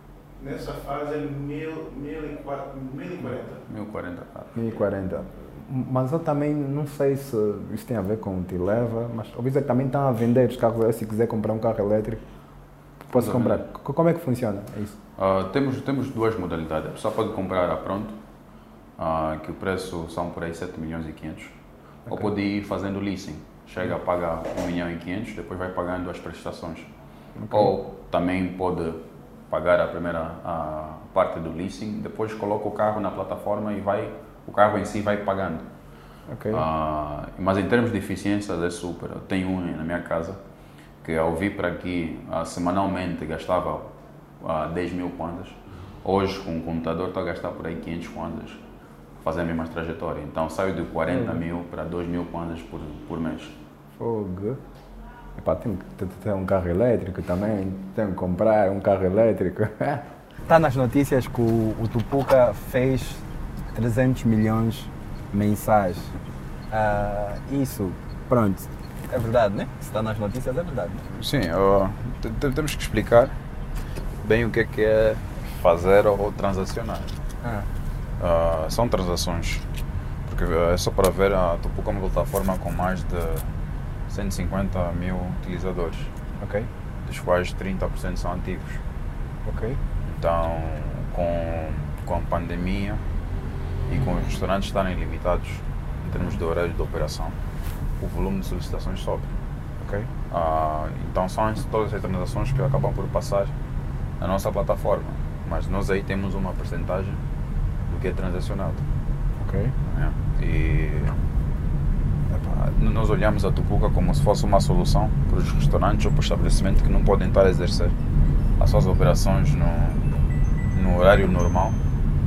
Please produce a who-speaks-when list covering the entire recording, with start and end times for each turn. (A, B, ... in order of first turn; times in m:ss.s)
0:00.4-0:03.7 A
0:03.7-0:04.6 B
0:04.6-0:12.2 C
0:13.1-0:15.0 C
0:13.2-0:13.6 B
0:15.2-0:18.2 B
0:19.0-0:21.6 B
0:22.1-0:26.9 B
0:27.4-0:27.7 C
0:27.5-0:35.7 B
0:36.3-0:36.6 C
0:36.5-0:40.4 B
0:41.0-0:48.6 B
0:49.2-0:53.6 B
0:51.1-0:51.4 C
0:54.0-0:54.6 C
0:55.4-1:06.1 C
1:06.7-1:11.0 C
1:11.1-1:13.4 B
1:14.2-1:17.2 B
1:17.4-1:17.7 C
1:18.2-1:19.6 B
1:20.3-1:23.5 B
1:24.1-1:26.1 B
1:26.4-1:26.7 C
1:27.1-1:28.8 B
1:29.4-1:29.8 C
1:30.0-1:33.0 B
1:33.9-1:37.4 B
1:38.0-1:39.3 B
1:39.8-1:40.1 C
1:40.3-1:43.5 B
1:44.2-1:47.2 B
1:47.9-1:48.8 B
1:49.4-1:49.8 C
1:49.9-1:51.2 B
1:52.3-1:57.9 B
1:58.6-2:00.1 B
2:00.7-2:01.8 B